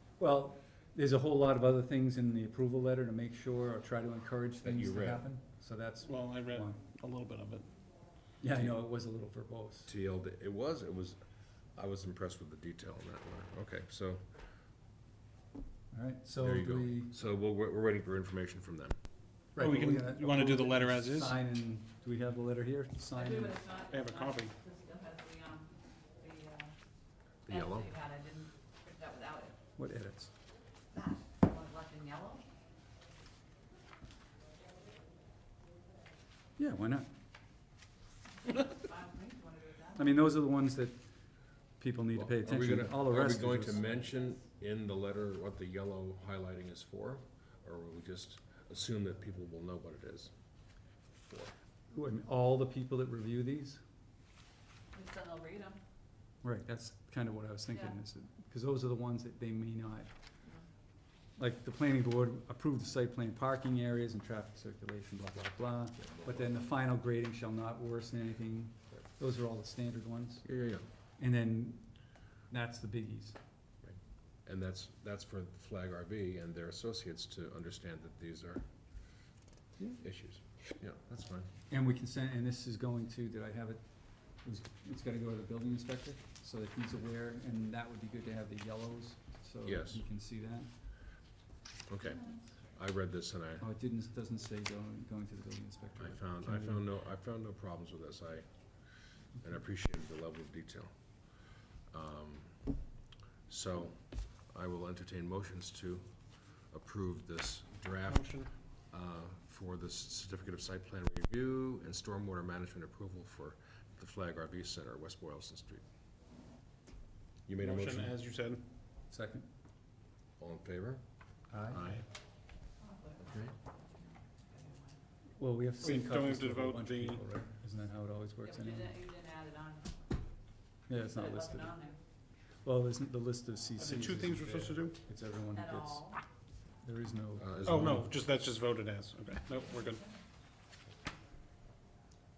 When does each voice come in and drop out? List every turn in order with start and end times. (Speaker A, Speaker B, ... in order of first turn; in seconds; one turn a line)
Speaker A: 0.2-6.8
Speaker B: 4.6-5.2
Speaker C: 6.0-7.7
Speaker A: 8.4-9.9
Speaker B: 9.9-11.2
Speaker B: 11.8-14.2
Speaker A: 15.9-17.1
Speaker B: 16.4-19.0
Speaker A: 19.6-23.6
Speaker C: 19.6-21.4
Speaker D: 23.1-26.7
Speaker C: 23.9-24.5
Speaker B: 27.5-27.9
Speaker D: 27.5-29.6
Speaker A: 29.8-30.3
Speaker D: 30.9-32.5
Speaker A: 36.6-37.1
Speaker D: 38.5-40.1
Speaker A: 40.0-41.0
Speaker A: 41.8-44.0
Speaker B: 42.2-50.3
Speaker B: 51.1-51.5
Speaker A: 51.9-53.8
Speaker D: 54.9-55.8
Speaker A: 56.4-60.1
Speaker A: 61.4-70.5
Speaker B: 66.0-66.5
Speaker B: 70.5-70.8
Speaker A: 71.2-71.8
Speaker A: 72.5-73.4
Speaker B: 73.8-78.6
Speaker B: 80.0-81.5
Speaker A: 81.7-83.8
Speaker A: 84.4-90.7
Speaker B: 89.7-90.0
Speaker B: 91.9-93.7
Speaker A: 93.6-96.8
Speaker B: 96.0-98.5
Speaker B: 99.4-100.9
Speaker B: 101.9-102.6
Speaker B: 103.5-106.1
Speaker B: 106.7-108.3
Speaker C: 108.1-108.5
Speaker B: 108.9-115.8
Speaker B: 117.5-118.2
Speaker C: 117.6-118.6
Speaker A: 119.1-119.5
Speaker B: 120.4-121.0
Speaker A: 121.5-121.8
Speaker B: 121.7-122.0
Speaker D: 122.8-123.3
Speaker B: 123.3-123.5
Speaker D: 124.0-125.0
Speaker A: 125.4-129.0
Speaker C: 125.8-127.2
Speaker D: 128.5-129.9
Speaker A: 130.9-131.8
Speaker D: 131.1-132.0
Speaker A: 132.7-136.1
Speaker C: 133.8-135.0
Speaker D: 135.5-136.2
Speaker A: 136.8-138.1
Speaker B: 137.4-138.1
Speaker C: 137.7-140.0